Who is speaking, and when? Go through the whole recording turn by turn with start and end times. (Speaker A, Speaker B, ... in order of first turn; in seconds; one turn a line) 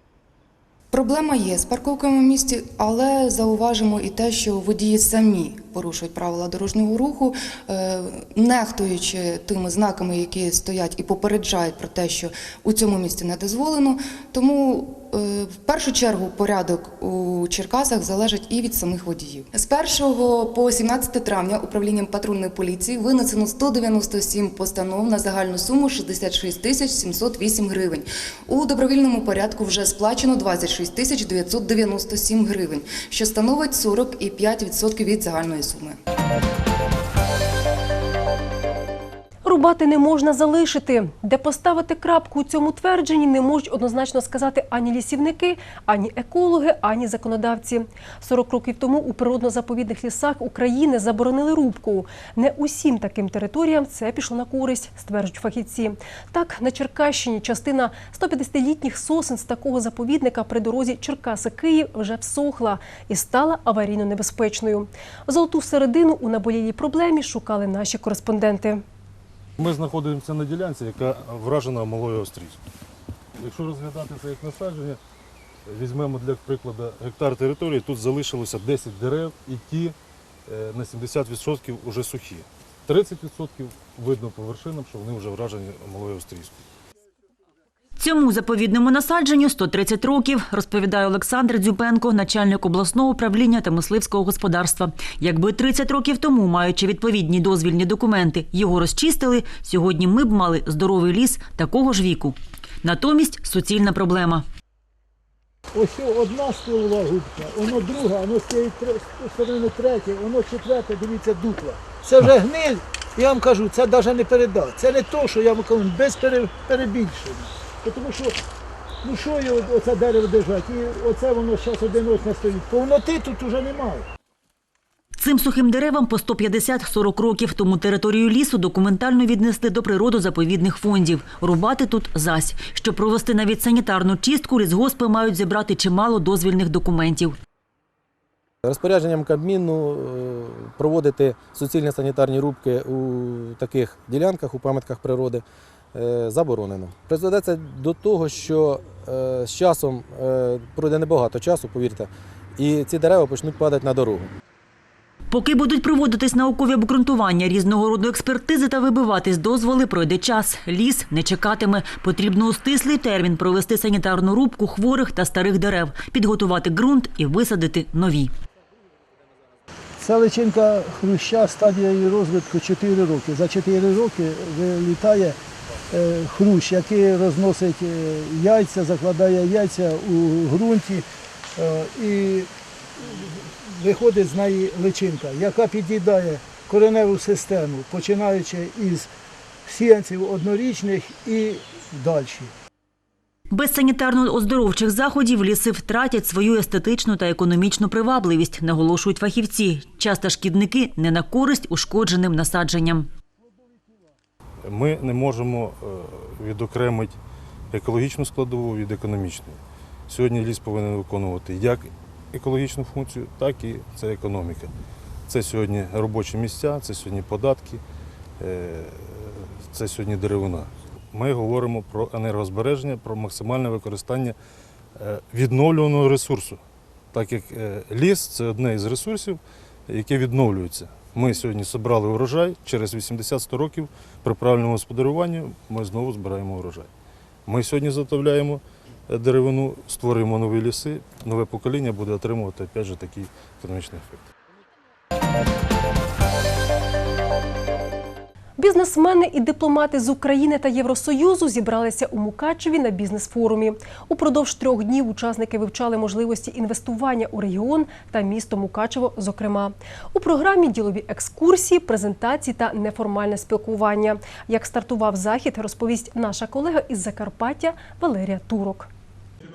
Speaker A: 0.9-36.0
Speaker B: 39.5-68.8
Speaker C: 69.6-72.6
Speaker C: 73.4-75.0
Speaker C: 75.7-80.0
Speaker C: 80.5-86.6
Speaker D: 88.0-104.5
Speaker E: 105.7-118.4
Speaker E: 119.0-124.1
Speaker D: 125.2-137.4
Speaker F: 138.6-154.3
Speaker D: 155.3-168.3
Speaker E: 170.0-175.4
Speaker E: 175.9-181.1
Speaker E: 181.6-189.1
Speaker E: 189.7-192.5
Speaker D: 193.5-203.1
Speaker C: 204.6-207.2
Speaker C: 207.7-214.7
Speaker C: 215.3-217.8
Speaker C: 218.4-224.4
Speaker C: 225.0-226.6
Speaker C: 227.1-236.9
Speaker C: 237.5-244.2
Speaker B: 248.6-268.9